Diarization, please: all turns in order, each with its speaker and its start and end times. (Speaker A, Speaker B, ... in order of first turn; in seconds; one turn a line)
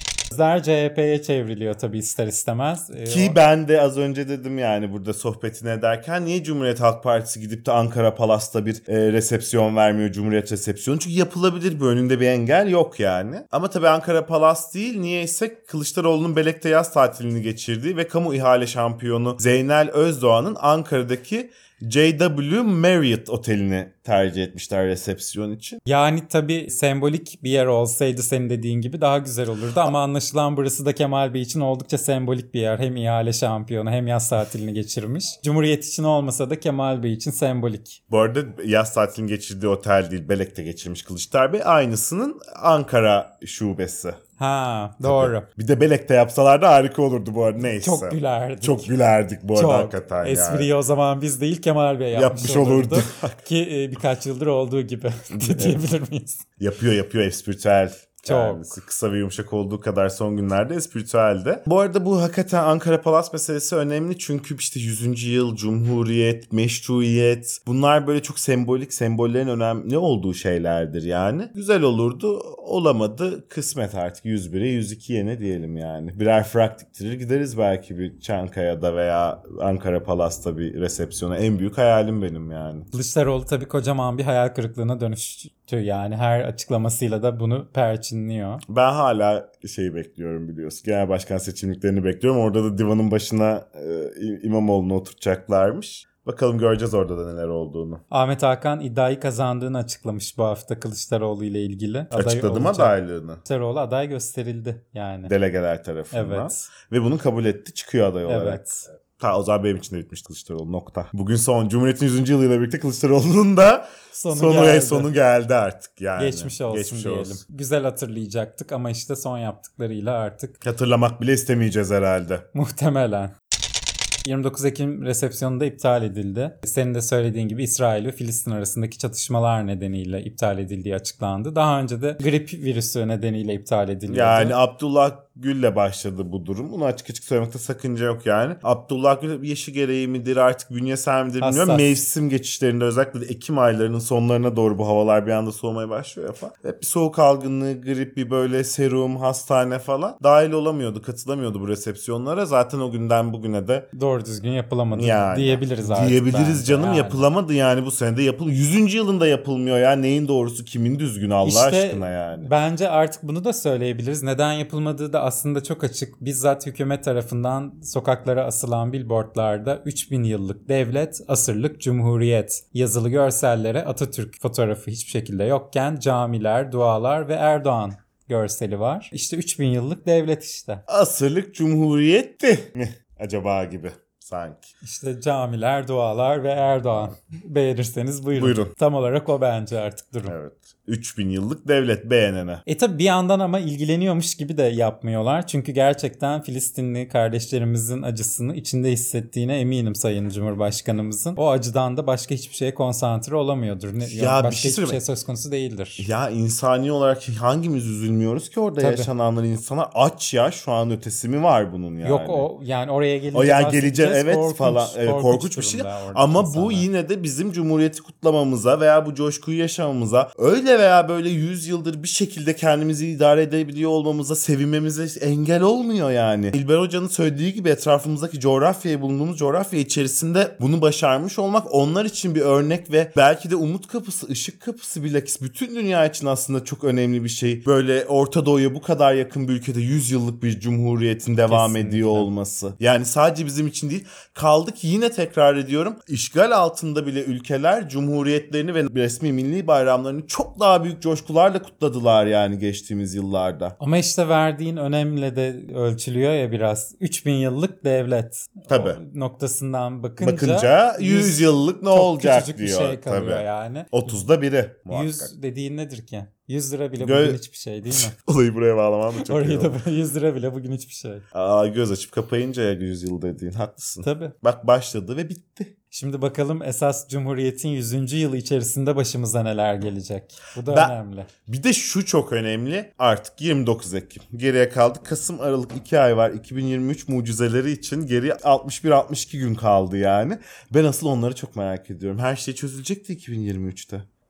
Speaker A: 0.3-3.4
Speaker B: 3.0-25.8
Speaker A: 25.9-38.0
Speaker B: 38.1-44.2
Speaker A: 44.4-45.5
Speaker B: 45.0-50.7
Speaker A: 47.6-48.9
Speaker A: 49.5-56.4
Speaker B: 52.1-53.4
Speaker B: 55.3-55.8
Speaker B: 56.6-82.9
Speaker A: 58.2-58.7
Speaker A: 82.9-88.6
Speaker B: 88.7-98.0
Speaker A: 98.1-105.3
Speaker B: 102.1-103.4
Speaker B: 105.2-117.4
Speaker A: 106.1-106.7
Speaker A: 108.2-108.8
Speaker A: 114.1-115.1
Speaker A: 116.2-120.5
Speaker B: 120.6-122.4
Speaker A: 122.5-123.3
Speaker A: 124.2-134.6
Speaker B: 134.1-153.9
Speaker A: 141.4-141.9
Speaker A: 153.9-157.2
Speaker B: 154.9-162.5
Speaker A: 161.4-180.8
Speaker B: 180.9-184.7
Speaker A: 184.8-190.3
Speaker B: 188.3-188.7
Speaker B: 190.2-192.6
Speaker A: 192.7-206.1
Speaker B: 204.0-205.0
Speaker B: 206.0-212.5
Speaker A: 208.8-209.1
Speaker A: 212.0-216.9
Speaker B: 213.3-253.8
Speaker A: 241.5-242.3
Speaker A: 253.8-264.2
Speaker B: 258.7-259.0
Speaker B: 260.2-265.3
Speaker A: 264.9-268.1
Speaker B: 267.0-269.8
Speaker A: 269.1-271.2
Speaker B: 271.3-275.7
Speaker A: 274.0-274.3
Speaker A: 275.9-281.3
Speaker B: 280.6-280.9
Speaker B: 281.4-294.1